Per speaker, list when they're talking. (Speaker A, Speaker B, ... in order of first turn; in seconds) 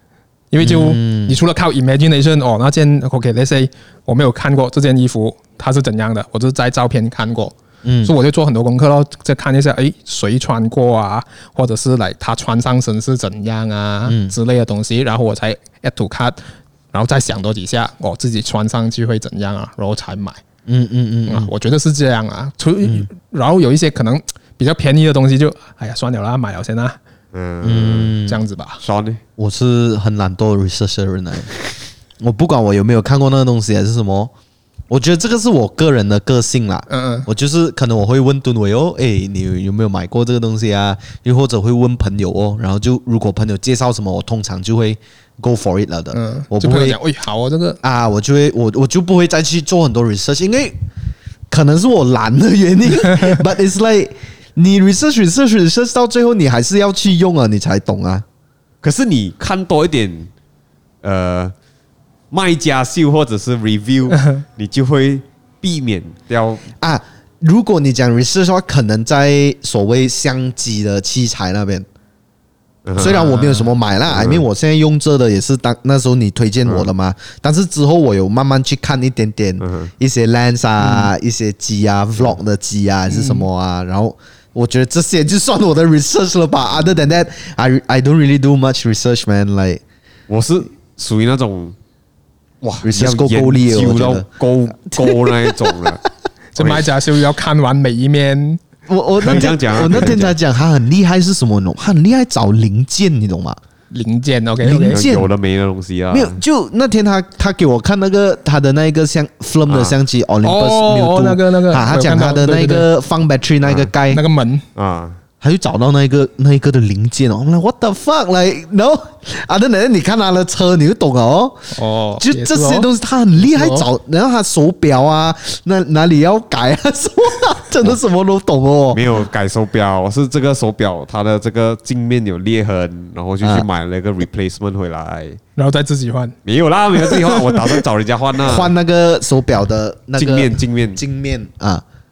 Speaker A: 0.5-20.4, 21.3-27.0, 28.3-28.8, 36.9-37.3, 46.1-47.8, 73.0-73.7, 80.8-81.1, 83.1-83.5, 96.5-98.6, 103.9-105.0, 110.4-112.9, 114.1-114.7, 121.7-123.9, 135.6-136.4, 137.0-137.8
Speaker B: 0.6-1.4, 7.8-8.1, 14.1-14.3, 20.7-21.5, 22.8-23.1, 27.6-28.4, 29.4-31.5, 32.2-34.3, 34.9-47.0, 47.8-50.8, 51.5-58.2, 66.8-71.9, 73.0-89.8, 92.8-94.3, 94.9-96.0, 98.9-103.6, 104.6-105.3, 106.1-114.2, 115.4-129.0, 133.4-133.7, 138.4-141.8
Speaker C: 27.3-28.2, 28.8-29.2, 58.8-60.3, 61.0-61.5, 62.3-66.7, 72.8-73.2, 74.1-74.4, 79.6-79.9, 90.3-91.8, 92.6-96.0, 96.6-96.9, 99.2-100.4, 104.9-106.4, 109.7-110.0, 113.6-113.9, 114.8-115.2, 128.9-135.4, 136.4-138.7, 140.2-141.0